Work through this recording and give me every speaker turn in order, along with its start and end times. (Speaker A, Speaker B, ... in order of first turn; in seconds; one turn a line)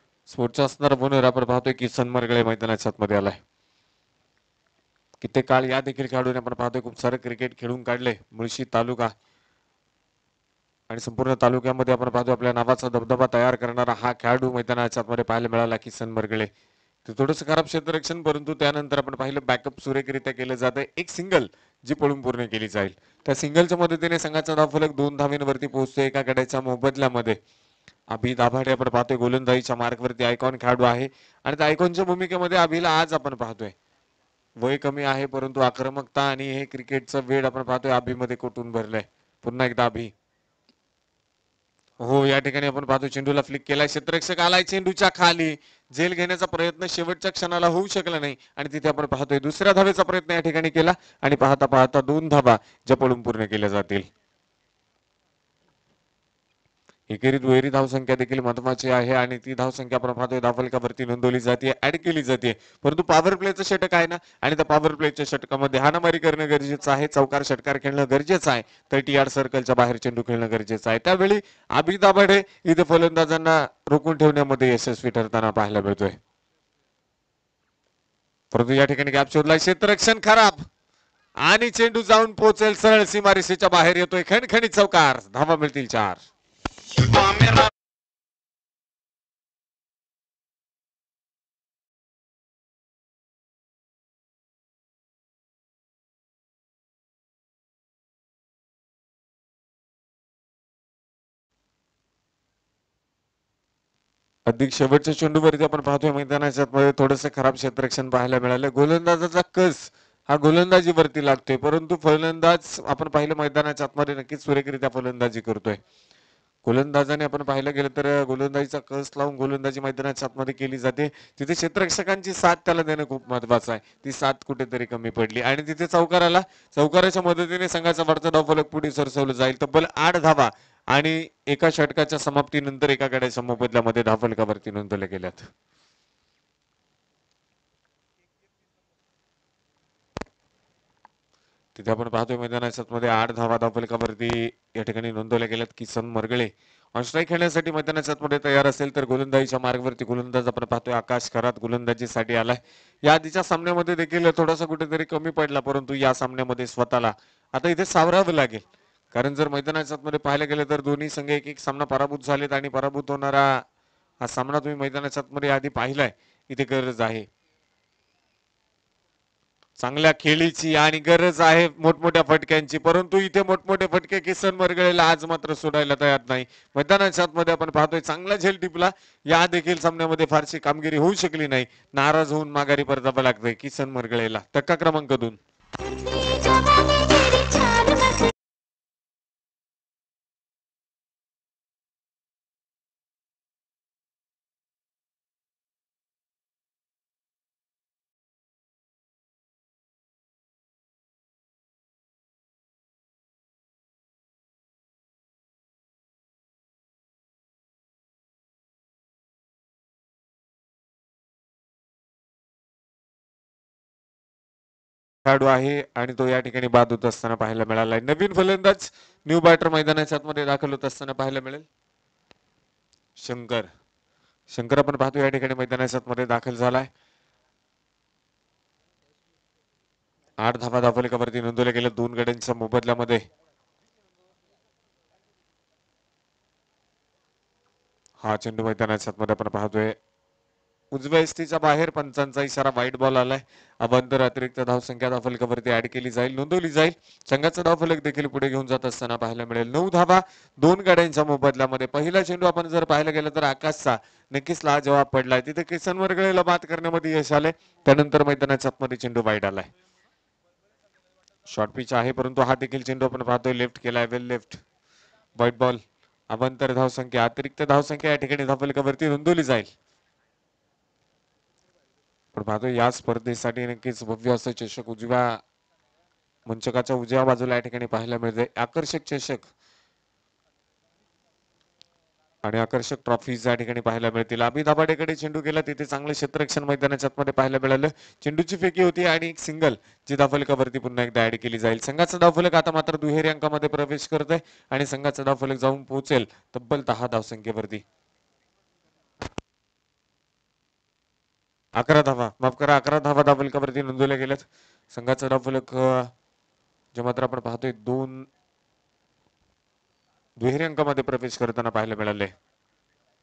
Speaker A: 0.3-3.4
Speaker A: 5.2-9.1
Speaker A: 10.9-16.5
Speaker A: 17.1-27.4
Speaker A: 28.1-33.7
Speaker A: 34.6-40.1
Speaker A: 42.0-54.1
Speaker A: 57.1-76.2
Speaker A: 78.5-80.7
Speaker A: 81.4-86.2
Speaker A: 104.5-115.8
Speaker A: 116.6-135.5
Speaker A: 141.8-163.6
Speaker A: 164.2-167.2
Speaker A: 169.8-185.4
Speaker A: 215.2-221.7
Speaker A: 223.2-223.7
Speaker A: 224.5-226.9
Speaker A: 230.4-233.2
Speaker A: 238.2-240.0
Speaker A: 240.9-259.7
Speaker A: 261.5-264.6
Speaker A: 265.4-269.7
Speaker A: 272.3-275.4
Speaker A: 276.4-279.5
Speaker A: 282.4-297.8
Speaker A: 301.7-306.1
Speaker A: 306.9-308.3
Speaker A: 310.4-312.3